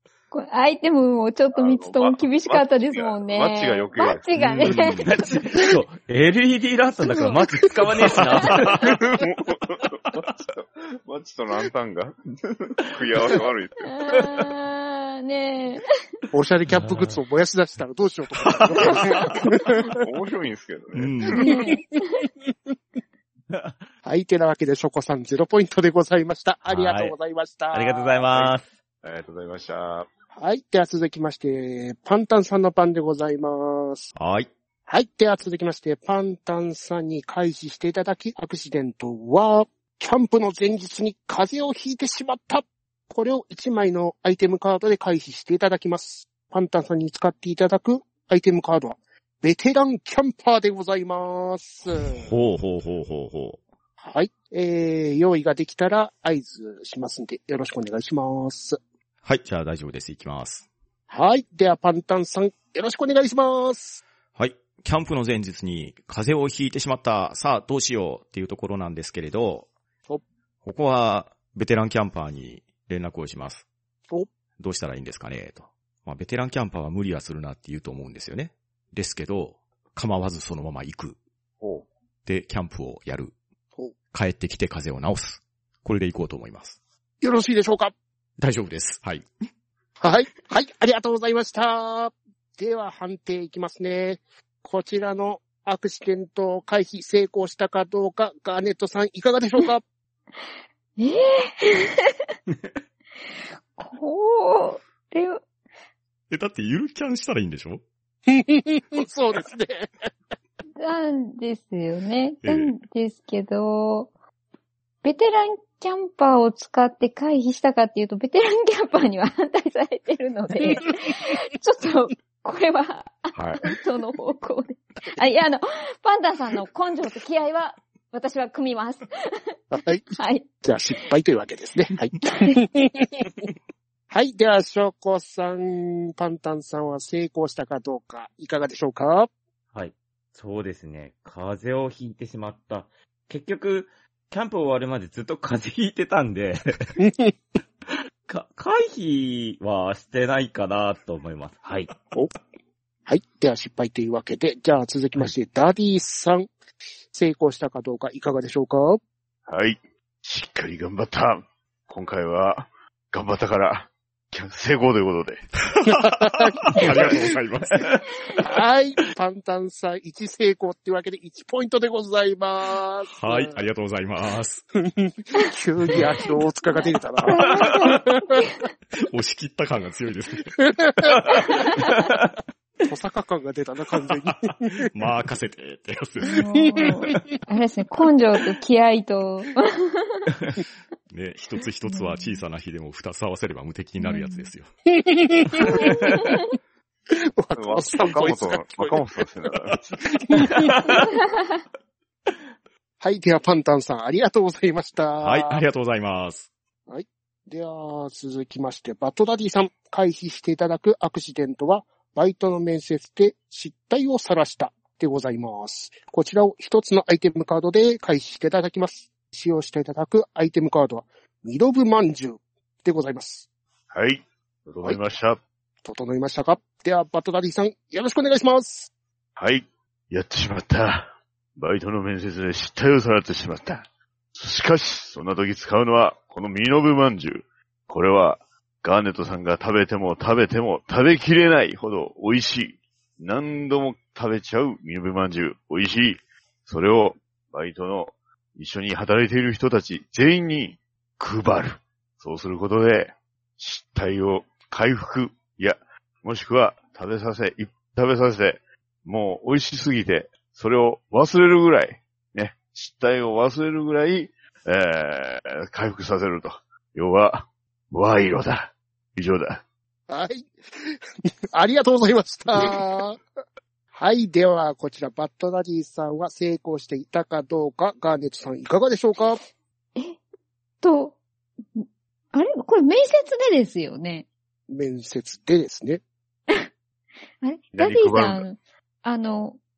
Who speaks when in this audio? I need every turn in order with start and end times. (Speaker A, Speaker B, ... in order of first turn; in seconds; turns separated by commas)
Speaker A: 0.3-5.0, Speaker B: 1.5-4.3, Speaker C: 4.3-5.1, Speaker D: 4.7-9.0, Speaker B: 8.8-14.4, Speaker A: 13.8-15.8, Speaker E: 16.3-19.9, Speaker D: 16.7-17.2, Speaker B: 18.8-21.3, Speaker A: 18.9-19.2, Speaker C: 20.9-21.5, Speaker A: 21.4-22.2, Speaker E: 21.4-21.8, Speaker D: 23.5-23.8, Speaker E: 24.0-28.4, Speaker D: 26.7-27.1, Speaker D: 27.7-28.7, Speaker B: 29.0-30.1, Speaker E: 30.3-34.1, Speaker C: 34.1-34.5, Speaker E: 34.9-52.3, Speaker C: 52.1-53.6, Speaker E: 54.0-58.8, Speaker C: 59.2-60.6, Speaker E: 61.1-64.0, Speaker C: 64.3-69.7, Speaker C: 70.6-73.6, Speaker C: 74.6-81.2, Speaker B: 81.6-81.8, Speaker C: 82.2-83.3, Speaker C: 84.1-86.8, Speaker E: 87.2-87.9, Speaker C: 88.4-89.2, Speaker E: 90.0-99.8, Speaker A: 101.0-102.2, Speaker A: 103.8-105.4, Speaker C: 106.3-107.8, Speaker E: 108.3-109.9, Speaker A: 110.8-114.1, Speaker C: 112.4-112.7, Speaker A: 115.0-129.5, Speaker B: 123.3-123.6, Speaker E: 129.7-133.3, Speaker A: 130.2-130.4, Speaker E: 134.1-139.3, Speaker D: 139.7-146.9, Speaker E: 147.0-147.3, Speaker D: 148.3-151.9, Speaker E: 153.1-156.5, Speaker E: 157.1-159.0, Speaker B: 159.5-165.4, Speaker C: 165.7-168.0, Speaker E: 165.9-167.2, Speaker E: 168.4-173.6, Speaker C: 173.1-174.6, Speaker E: 174.9-178.4, Speaker A: 177.2-178.7, Speaker C: 179.0-180.5, Speaker E: 180.8-181.4, Speaker E: 182.9-184.9, Speaker C: 184.8-186.5, Speaker A: 186.3-190.3, Speaker E: 186.8-187.2, Speaker C: 191.1-194.7, Speaker A: 191.9-192.4, Speaker A: 194.0-194.5, Speaker E: 195.0-196.1, Speaker A: 195.7-196.4, Speaker E: 197.4-199.0, Speaker B: 197.6-200.0, Speaker E: 200.2-200.9, Speaker A: 201.1-201.4, Speaker E: 203.0-205.6, Speaker C: 205.2-206.5, Speaker E: 206.9-223.5, Speaker B: 223.9-225.4, Speaker E: 225.8-228.9, Speaker B: 229.3-269.6, Speaker E: 270.1-270.9, Speaker E: 271.5-273.2, Speaker E: 273.9-279.4, Speaker A: 280.8-281.2, Speaker A: 281.7-284.2, Speaker E: 284.7-286.0, Speaker A: 287.4-289.6, Speaker B: 287.7-288.4